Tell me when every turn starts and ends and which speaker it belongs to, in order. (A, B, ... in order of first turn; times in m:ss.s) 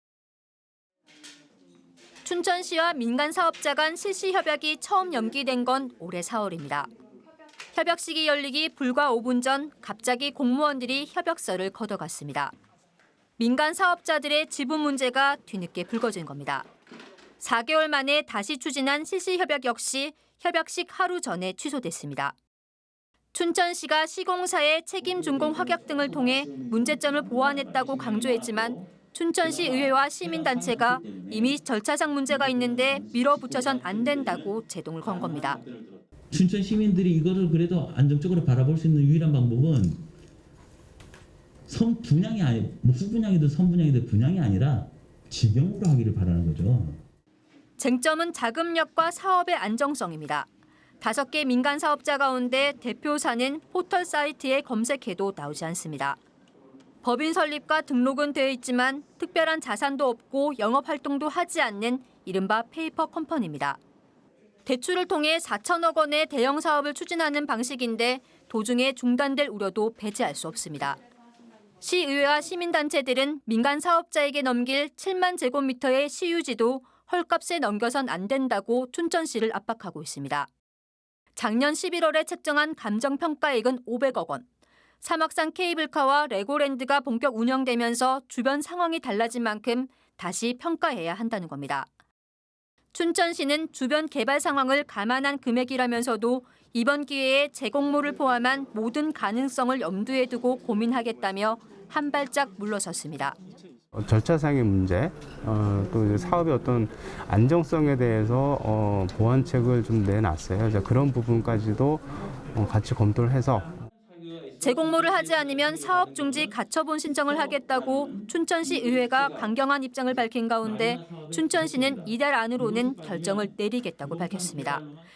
0:02.2-0:06.9 A
0:07.7-0:12.5 A
0:13.4-0:16.7 A
0:17.4-0:22.4 A
0:23.3-0:35.6 A
0:25.0-0:28.9 B
0:29.4-0:31.6 B
0:32.3-0:34.5 B
0:35.0-0:40.0 B
0:41.7-0:47.0 B
0:47.8-0:50.5 A
0:51.0-0:56.2 A
0:57.0-1:03.8 A
1:04.7-1:11.0 A
1:11.8-1:20.5 A
1:21.4-1:24.4 A
1:25.0-1:31.9 A
1:32.9-1:43.4 A
1:43.9-1:53.8 C
1:54.4-1:56.5 B
1:54.6-2:04.8 A
1:57.4-1:59.5 B
2:00.6-2:05.0 B